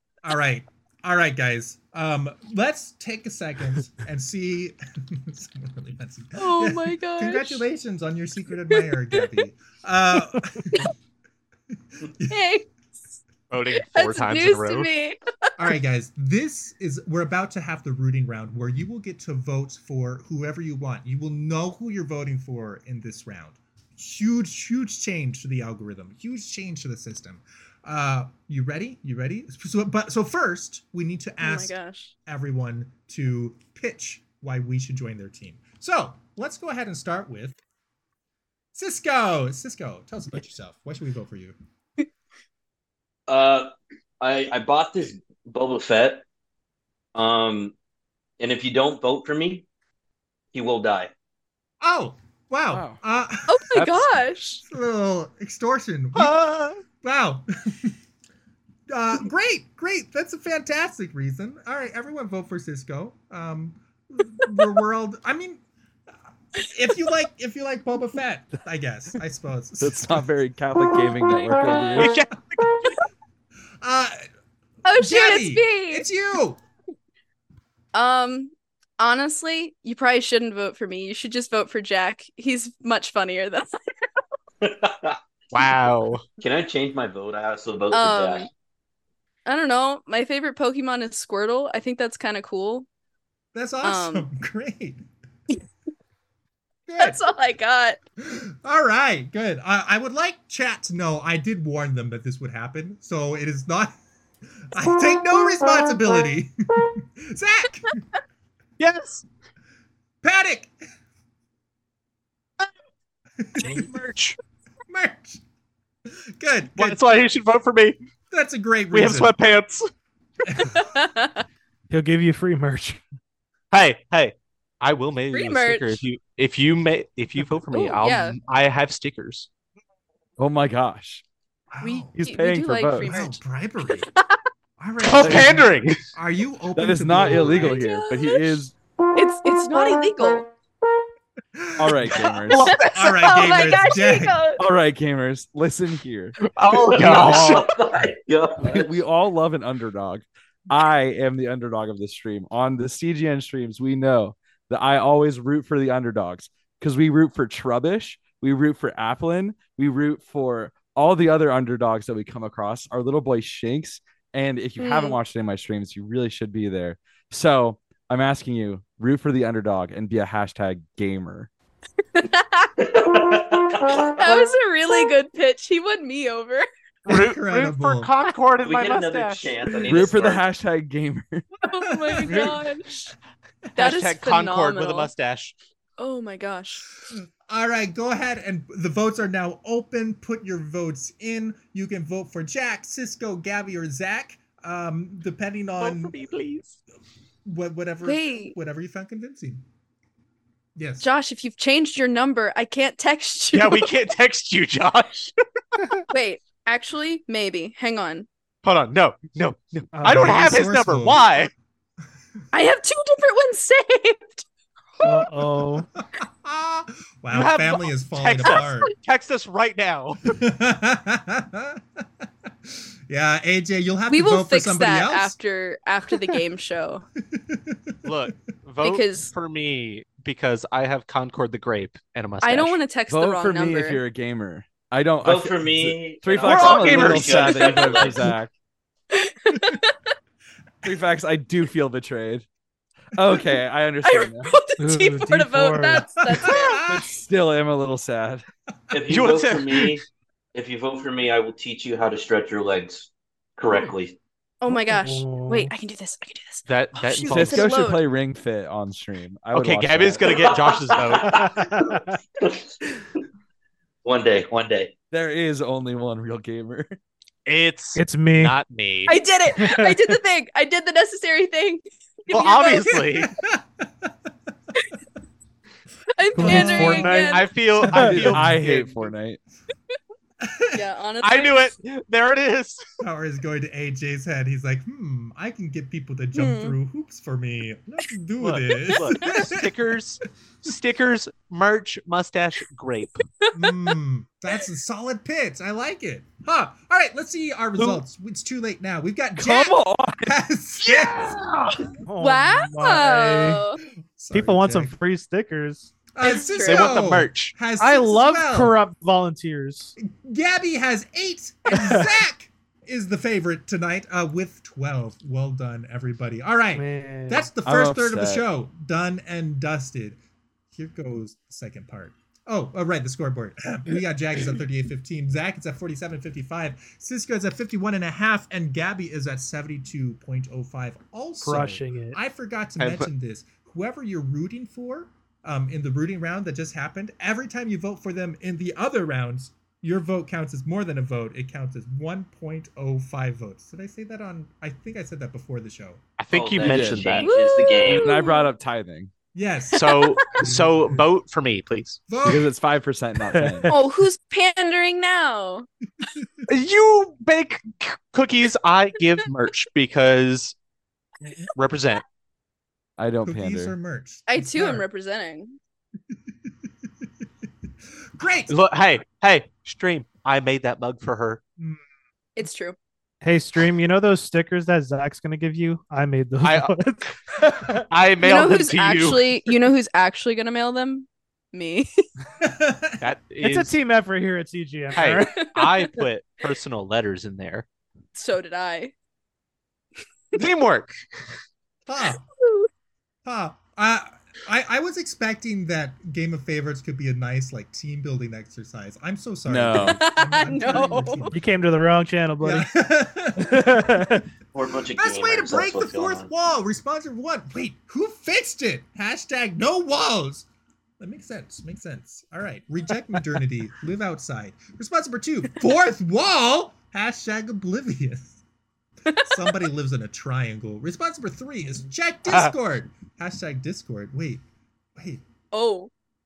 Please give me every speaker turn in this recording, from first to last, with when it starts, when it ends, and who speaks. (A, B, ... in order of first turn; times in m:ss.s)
0:00.2-0:10.9 A
0:06.4-0:07.6 B
0:08.8-0:09.2 B
0:12.0-0:12.5 A
0:12.3-0:12.7 B
0:13.5-0:14.9 C
0:13.7-0:15.5 B
0:15.6-0:37.6 A
0:31.4-0:32.1 B
0:38.7-0:41.6 A
0:43.3-0:46.2 D
0:47.1-0:47.7 D
0:48.4-0:49.6 D
0:50.5-0:51.1 D
0:51.8-0:54.0 A
0:52.7-0:53.0 E
0:53.5-0:54.6 B
0:53.8-0:54.1 E
0:54.6-0:56.4 A
0:56.2-0:56.8 F
0:57.0-0:57.9 A
0:58.9-1:05.6 A
1:06.5-1:10.2 A
1:09.8-1:12.2 E
1:12.0-1:13.0 C
1:13.8-1:14.2 A
1:14.8-1:16.0 B
1:14.9-1:16.6 A
1:17.9-1:23.7 B
1:24.6-1:25.2 D
1:25.5-1:26.2 C
1:26.4-1:28.5 D
1:27.9-1:28.5 B
1:29.4-1:32.9 B
1:33.5-1:35.0 A
1:33.8-1:34.3 B
1:36.9-1:37.2 A
1:37.0-1:38.0 B
1:38.2-1:44.0 A
1:44.7-1:48.0 A
1:48.8-1:49.2 C
1:50.2-1:50.7 A
1:53.4-1:53.9 A
1:53.6-1:54.4 C
1:54.9-1:55.4 A
1:56.4-1:57.0 A
1:56.8-1:58.0 C
1:58.3-1:59.3 A
1:58.9-1:59.8 C
2:00.5-2:00.8 A
2:00.6-2:01.4 B
2:01.9-2:03.0 F
2:03.7-2:09.5 C
2:05.3-2:06.0 B
2:07.7-2:08.4 B
2:10.4-2:11.2 E
2:11.7-2:12.1 A
2:11.8-2:14.4 B
2:12.2-2:13.1 E
2:13.0-2:14.1 A
2:14.8-2:17.8 A
2:15.0-2:16.0 C
2:15.2-2:15.6 E
2:16.7-2:18.7 E
2:17.3-2:20.5 B
2:21.6-2:22.3 A
2:21.8-2:22.7 E
2:22.5-2:23.2 C
2:22.6-2:24.6 B
2:22.9-2:24.4 A
2:24.6-2:26.4 E
2:26.5-2:27.7 C
2:26.9-2:27.7 E
2:26.9-2:29.0 D
2:28.6-2:51.5 E
2:44.8-2:45.2 B
2:52.1-2:52.7 B
2:52.8-2:54.4 D
2:54.2-2:56.6 B
2:57.0-2:58.1 A
2:57.1-2:59.8 C
2:58.6-3:00.4 D
2:59.9-3:01.5 E
3:01.6-3:03.1 B
3:01.9-3:02.6 A
3:02.3-3:02.6 C
3:03.8-3:05.1 B
3:03.8-3:05.5 C
3:06.0-3:06.8 B
3:07.1-3:16.2 A
3:15.8-3:16.8 C
3:17.4-3:19.6 A
3:18.0-3:18.5 B
3:20.8-3:21.1 A
3:21.0-3:23.9 B
3:23.5-3:25.3 C
3:26.1-3:28.3 B
3:28.6-3:31.5 C
3:29.9-3:30.4 F
3:30.0-3:31.3 A
3:32.5-3:34.4 B
3:35.0-3:35.9 F
3:36.0-3:38.9 A
3:37.3-3:40.3 C
3:40.3-3:41.8 A
3:42.7-3:45.4 A
3:44.1-3:47.0 B
3:47.3-3:47.9 A
3:48.0-3:52.8 C
3:48.8-3:49.3 B
3:52.4-3:54.0 B
3:53.1-3:58.5 E
3:55.2-3:58.3 D
3:56.4-3:58.0 C
3:57.5-3:57.9 B
3:59.1-4:00.1 B
4:00.8-4:02.4 E
4:03.1-4:04.5 E
4:04.0-4:06.9 B
4:04.8-4:06.1 F
4:06.2-4:07.2 A
4:06.7-4:08.4 E
4:08.9-4:10.0 D
4:09.1-4:10.0 C
4:10.5-4:14.2 D
4:14.6-4:18.0 B
4:14.7-4:15.7 F
4:16.7-4:17.7 C
4:17.3-4:20.7 E
4:19.5-4:21.4 C
4:20.5-4:21.4 D
4:21.2-4:22.1 F
4:22.4-4:22.7 D
4:24.0-4:24.9 D
4:25.1-4:27.0 E
4:27.4-4:29.2 C
4:28.0-4:28.6 F
4:29.1-4:33.1 B
4:29.6-4:30.2 F
4:32.3-4:33.3 C
4:33.3-4:34.1 A
4:36.1-4:37.5 B
4:36.4-4:38.3 F
4:36.4-4:36.9 A
4:37.0-4:39.1 C
4:37.8-4:39.4 E
4:40.4-4:40.8 A
4:40.7-4:41.7 B
4:41.2-4:42.8 C
4:43.0-4:49.6 A
4:46.3-4:46.8 B
4:48.4-4:53.2 C
4:53.4-4:53.8 B
4:53.5-5:01.4 A
4:57.8-4:58.0 C
4:59.4-5:00.4 E
5:00.8-5:01.7 C
5:02.0-5:03.6 F
5:02.2-5:03.8 B
5:04.2-5:04.9 A
5:04.3-5:05.9 F
5:06.1-5:08.8 A
5:06.2-5:07.0 B
5:06.6-5:07.6 C
5:07.8-5:09.9 F
5:10.0-5:20.2 A
5:11.7-5:12.1 F
5:16.7-5:17.5 F
5:17.6-5:18.4 E
5:20.7-5:46.0 A
5:31.4-5:32.2 F
5:32.8-5:33.1 C
5:46.2-5:47.3 C
5:46.3-5:48.2 D
5:46.6-5:47.2 E
5:47.2-5:48.5 B
5:47.8-5:49.1 E
5:49.3-5:50.9 A
5:49.7-5:52.0 C
5:49.9-5:50.4 B
5:52.1-5:52.5 A
5:52.2-5:53.7 E
5:53.3-5:53.8 F
5:53.7-5:55.7 B
5:56.1-5:56.4 A
5:56.5-6:00.5 C
6:01.4-6:02.0 C
6:03.0-6:03.8 E
6:03.2-6:04.9 A
6:04.3-6:05.6 B
6:08.2-6:08.5 A
6:08.5-6:11.4 C
6:12.4-6:12.8 B
6:13.2-6:17.8 F
6:16.4-6:16.8 C
6:17.9-6:19.5 C
6:18.2-6:21.9 B
6:22.4-6:23.0 A
6:23.0-6:23.7 C
6:23.4-6:25.4 F
6:24.9-6:27.6 C
6:25.4-6:25.8 B
6:28.1-6:28.9 B
6:30.3-6:31.0 C
6:31.8-6:32.2 A
6:32.2-6:32.7 B
6:33.2-6:41.4 A
6:39.4-6:40.0 E
6:39.8-6:41.3 B
6:41.3-6:42.7 F
6:42.4-6:44.0 A
6:43.3-6:44.2 F
6:44.5-6:46.3 D
6:44.9-6:50.4 A
6:51.0-6:58.4 A
6:59.1-6:59.5 B
6:59.2-7:04.4 A
7:02.3-7:02.5 C
7:05.0-7:05.2 A
7:05.5-7:05.9 B